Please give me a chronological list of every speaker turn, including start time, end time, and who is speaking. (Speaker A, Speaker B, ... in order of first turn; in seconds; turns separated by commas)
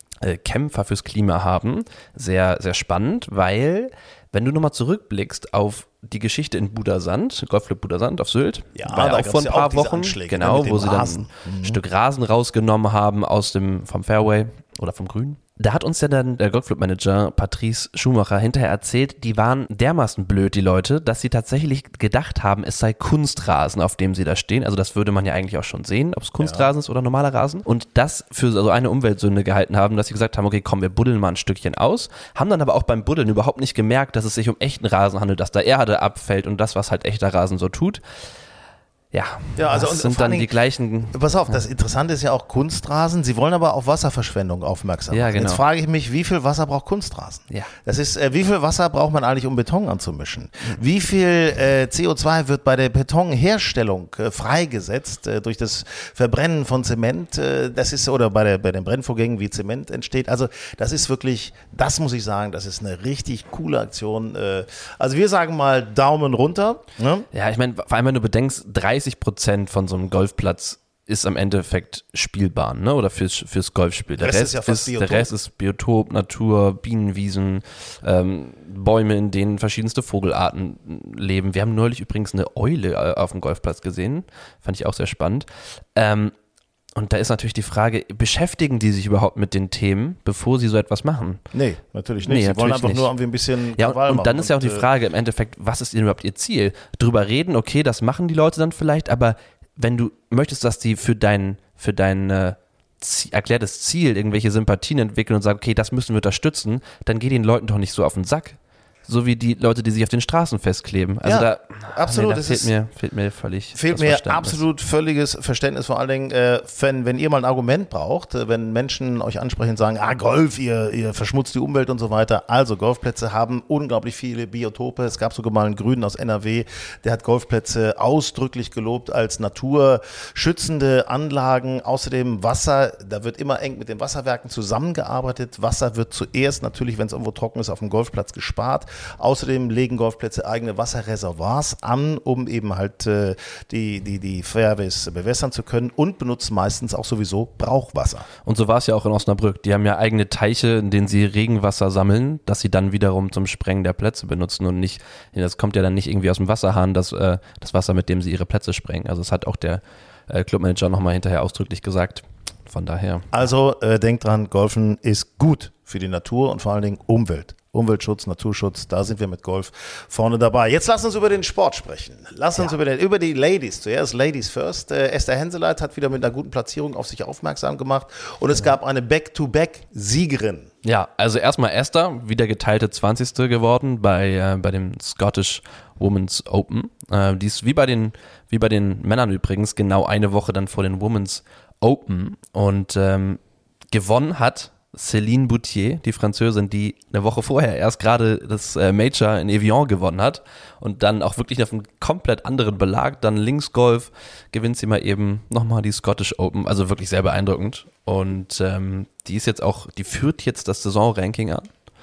Speaker A: 0.2-38.0, Speaker B: 8.8-11.8, Speaker B: 26.4-26.7, Speaker A: 39.1-41.6, Speaker B: 39.6-40.5, Speaker B: 41.1-67.3, Speaker A: 45.1-45.6, Speaker A: 67.3-86.3, Speaker B: 74.2-75.3, Speaker A: 87.0-91.4, Speaker B: 91.5-94.9, Speaker A: 92.2-93.1, Speaker A: 93.8-114.6, Speaker B: 111.2-112.7, Speaker B: 113.8-148.3, Speaker A: 148.4-163.3, Speaker B: 163.3-180.7, Speaker A: 180.8-193.4, Speaker A: 193.9-211.8